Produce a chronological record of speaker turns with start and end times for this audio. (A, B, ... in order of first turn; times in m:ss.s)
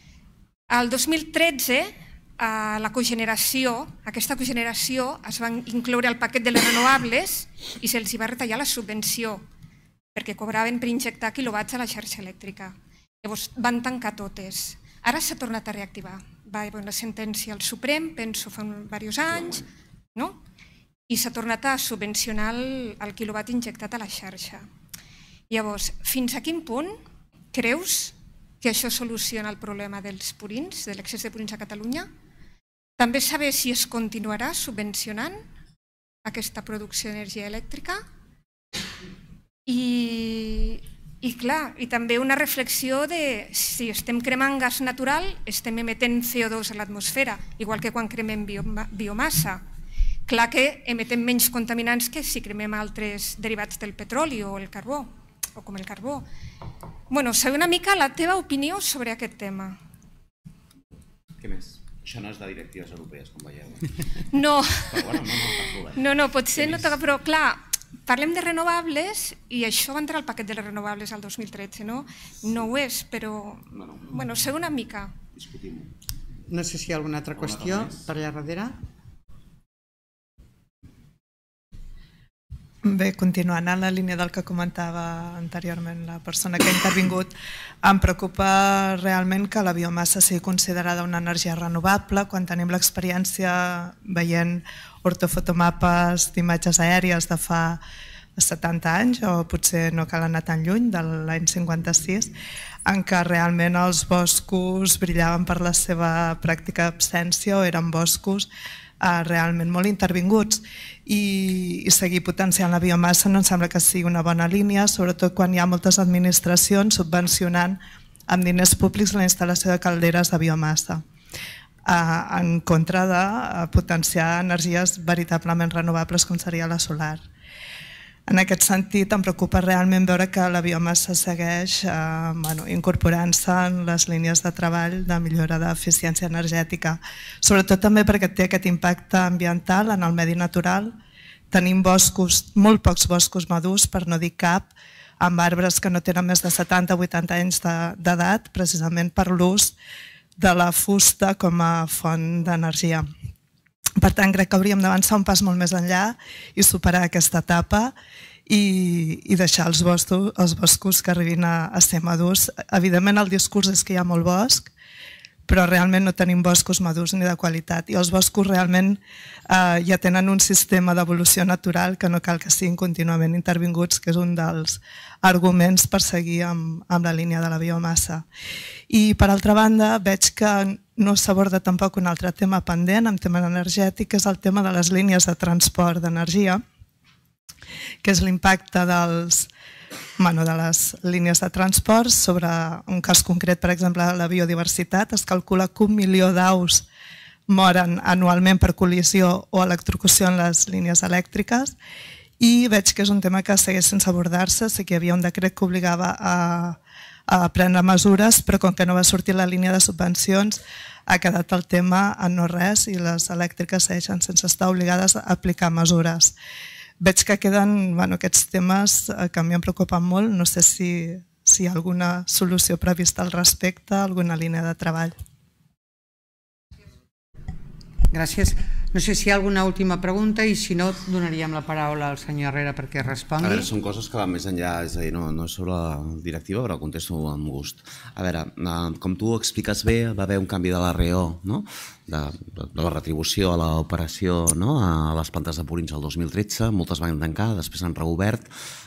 0:00.7-0:09.4 A
0:10.2-0:20.4 A
0:21.1-0:24.6 A
0:25.5-0:27.0 A
0:27.5-0:32.1 A
0:33.0-0:35.4 A
0:36.2-0:38.0 A
0:39.7-0:49.6 A
0:50.3-0:56.2 A
0:57.1-0:59.8 A
1:01.4-1:03.9 B
1:04.3-1:05.0 A
1:04.8-1:06.0 B
1:06.0-1:15.2 A
1:06.6-1:06.8 B
1:16.5-1:18.8 C
1:22.8-1:37.8 D
1:38.4-1:42.3 D
1:42.9-1:48.5 D
1:49.0-2:01.0 D
2:01.9-2:07.2 D
2:08.3-2:20.9 D
2:21.5-2:29.8 D
2:30.4-2:33.1 D
2:34.0-2:37.9 D
2:38.5-2:44.7 D
2:45.5-2:58.3 D
2:58.9-3:06.6 D
3:08.0-3:09.5 D
3:10.2-3:16.9 D
3:17.5-3:21.8 D
3:22.4-3:36.3 D
3:37.0-3:45.2 D
3:48.1-3:53.7 C
3:53.4-4:08.5 B